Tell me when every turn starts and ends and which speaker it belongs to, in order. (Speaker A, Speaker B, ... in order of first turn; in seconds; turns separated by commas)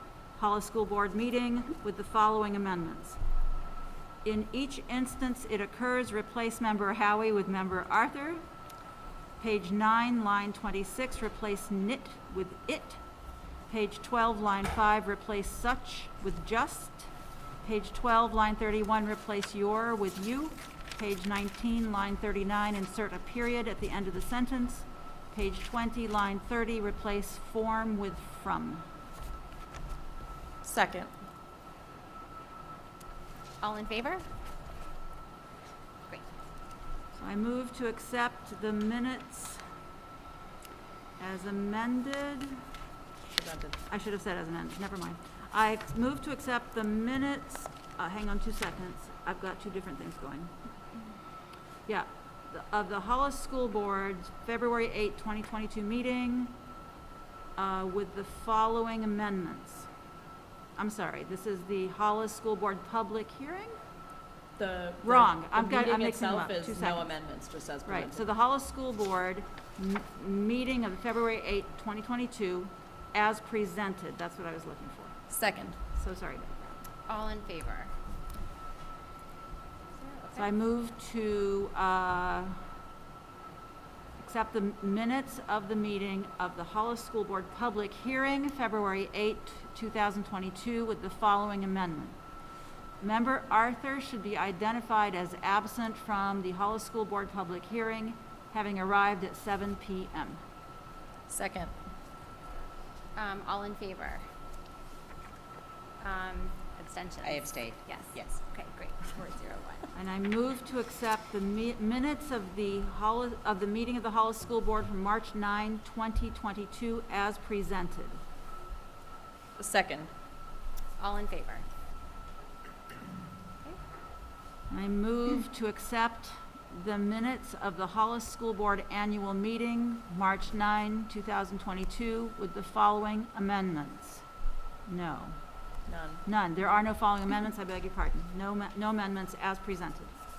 Speaker A: 0.3-3.2, Speaker A: 4.2-8.4, Speaker A: 9.4-13.0, Speaker A: 13.7-17.1, Speaker A: 17.6-28.8, Speaker B: 30.6-31.1, Speaker C: 33.6-34.2, Speaker A: 37.1-39.6, Speaker A: 41.2-42.6, Speaker B: 43.3-43.8, Speaker A: 43.9-50.5, Speaker A: 51.9-56.5, Speaker A: 57.6-59.9, Speaker A: 60.8-63.7, Speaker B: 64.6-68.2, Speaker A: 65.0-67.1, Speaker A: 67.8-75.1, Speaker B: 75.3-75.8, Speaker A: 75.8-76.8, Speaker C: 77.0-77.9, Speaker C: 79.9-80.5, Speaker A: 80.3-82.6, Speaker A: 84.2-92.2, Speaker A: 93.0-100.4, Speaker B: 101.3-101.7, Speaker C: 103.2-104.2, Speaker C: 106.0-109.9, Speaker B: 107.2-108.4, Speaker A: 109.9-118.2, Speaker B: 119.6-120.1, Speaker C: 121.0-121.6, Speaker A: 124.7-134.2, Speaker A: 134.8-135.4, Speaker B: 135.9-136.2, Speaker A: 136.2-140.1